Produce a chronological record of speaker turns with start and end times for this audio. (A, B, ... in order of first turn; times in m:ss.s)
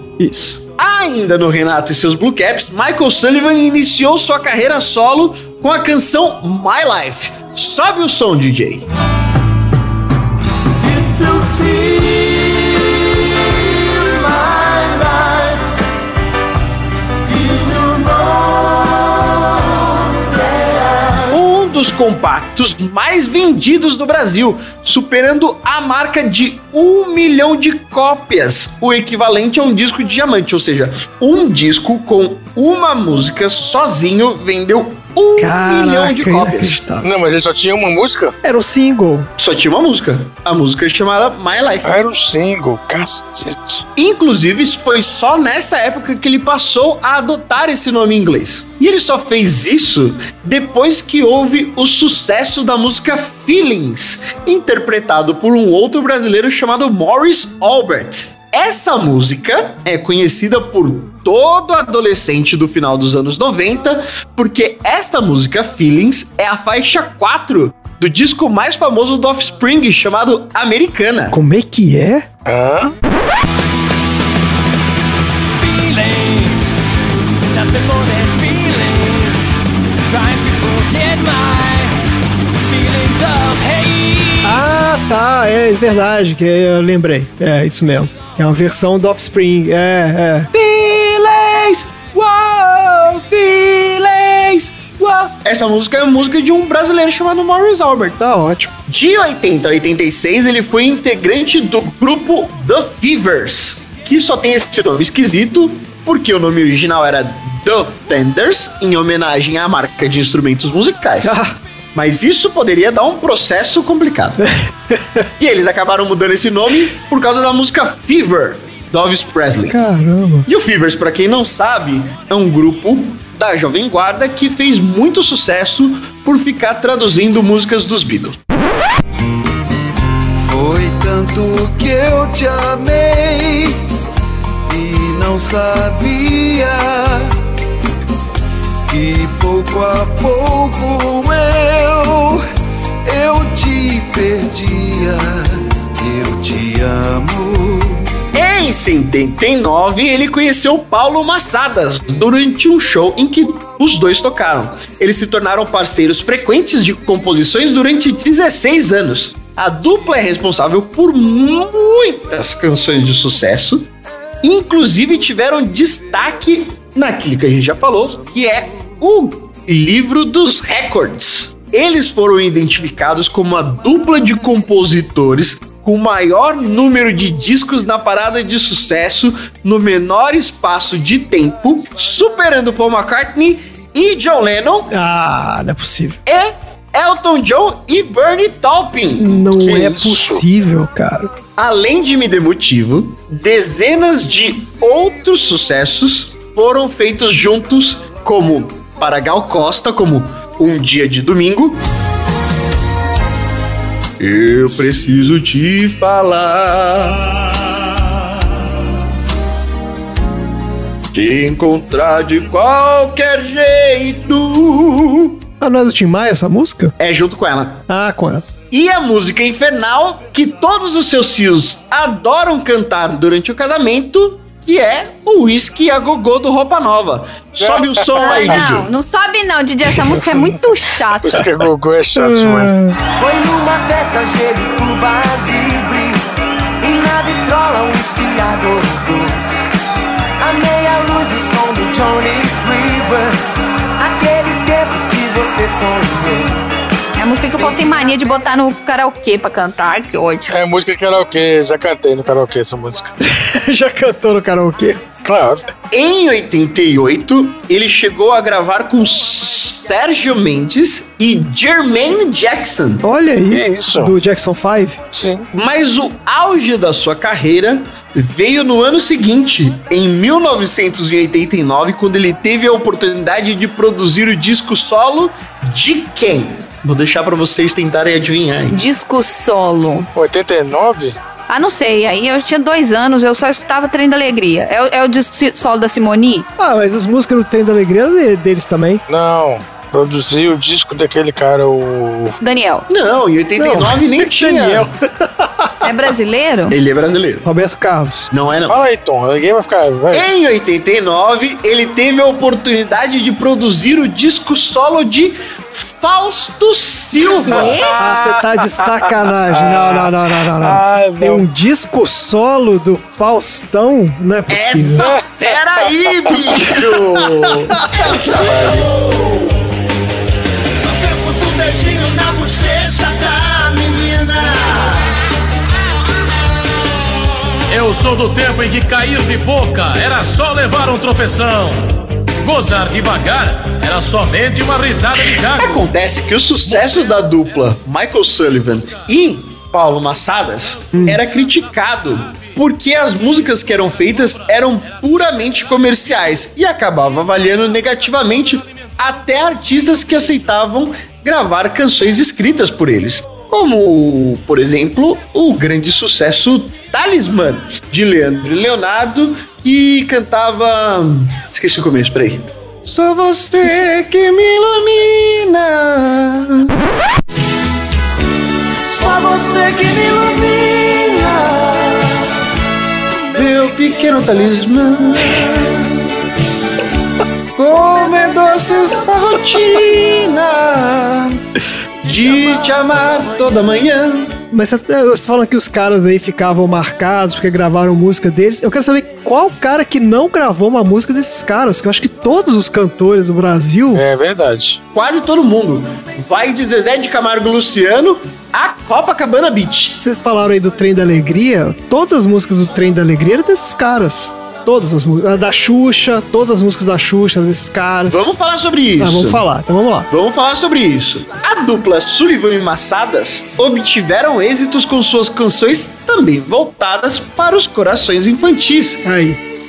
0:00.2-0:00.6 A
0:00.8-0:08.9 B
0:10.8-0:15.6 C
0:17.2-0:21.3 C
0:21.3-0:36.8 B
0:35.4-0:37.1 A
0:37.0-0:38.3 D
0:38.4-0:39.3 A
0:39.4-0:41.9 B
0:41.8-0:43.8 D
0:44.0-1:11.4 B
1:11.3-1:12.3 A
1:12.4-1:12.9 D
1:15.5-1:16.7 C
1:17.5-1:19.5 C
1:20.0-1:22.0 C
1:22.6-1:24.6 C
1:24.4-1:30.5 A
1:30.5-1:38.2 B
1:38.2-1:38.7 A
1:38.8-1:51.4 B
1:51.2-1:51.5 A
1:51.9-1:54.4 B
1:54.4-1:55.2 A
1:55.4-1:59.8 B
1:59.7-2:00.5 A
2:00.4-2:08.4 B
2:10.4-2:13.8 E
2:14.7-2:17.3 E
2:18.9-2:22.4 E
2:23.0-2:28.1 E
2:28.3-2:43.9 B
2:44.4-3:04.9 B
3:04.9-3:06.2 A
3:06.2-3:09.4 B
3:09.2-3:11.3 A
3:09.6-3:10.4 D
3:11.6-3:21.8 B
3:24.2-3:27.6 B
3:31.1-3:35.4 B
3:35.6-3:36.9 A
3:37.0-3:37.8 B
3:37.9-3:38.5 A
3:38.7-3:48.9 B
3:47.6-3:48.6 D
3:48.2-3:51.4 F
3:51.2-3:52.8 D
3:52.2-3:53.0 A
3:53.2-3:56.2 C
3:56.8-3:59.4 C
4:00.4-4:06.5 C
4:07.2-4:10.5 F
4:10.5-4:13.1 D
4:13.2-4:15.0 A
4:15.2-4:15.6 D
4:15.9-4:23.0 B
4:23.0-4:25.0 A
4:23.5-4:24.1 D
4:25.1-4:25.5 D
4:25.5-4:38.8 B
4:38.7-4:40.1 F
4:40.1-4:41.2 D
4:41.5-4:46.5 F
4:46.6-4:49.0 A
4:49.1-4:52.4 D
4:52.4-4:52.9 F
4:52.9-4:54.9 B
4:53.6-4:55.9 A
4:55.8-4:56.8 F
4:56.7-4:57.5 B
4:57.4-4:58.3 A
4:58.3-4:58.8 B
4:58.7-5:00.3 D
5:00.1-5:08.3 B
5:07.5-5:07.9 F
5:07.9-5:15.1 A
5:09.5-5:11.4 D
5:14.5-5:18.4 B
5:15.0-5:15.5 D
5:16.1-5:16.4 D
5:17.5-5:18.1 A
5:18.3-5:18.9 D
5:20.9-5:25.0 C
5:27.7-5:35.8 G
5:35.5-6:06.7 B
6:08.9-6:12.2 C
6:13.3-6:15.9 B
6:17.6-6:21.4 B
6:22.0-6:24.4 B
6:24.5-6:34.0 A
6:33.9-6:34.8 D
6:34.9-6:40.0 B
6:40.0-6:48.2 A
6:48.1-6:49.4 B
6:49.0-6:50.1 A
6:50.1-6:59.0 B
6:59.0-6:59.4 A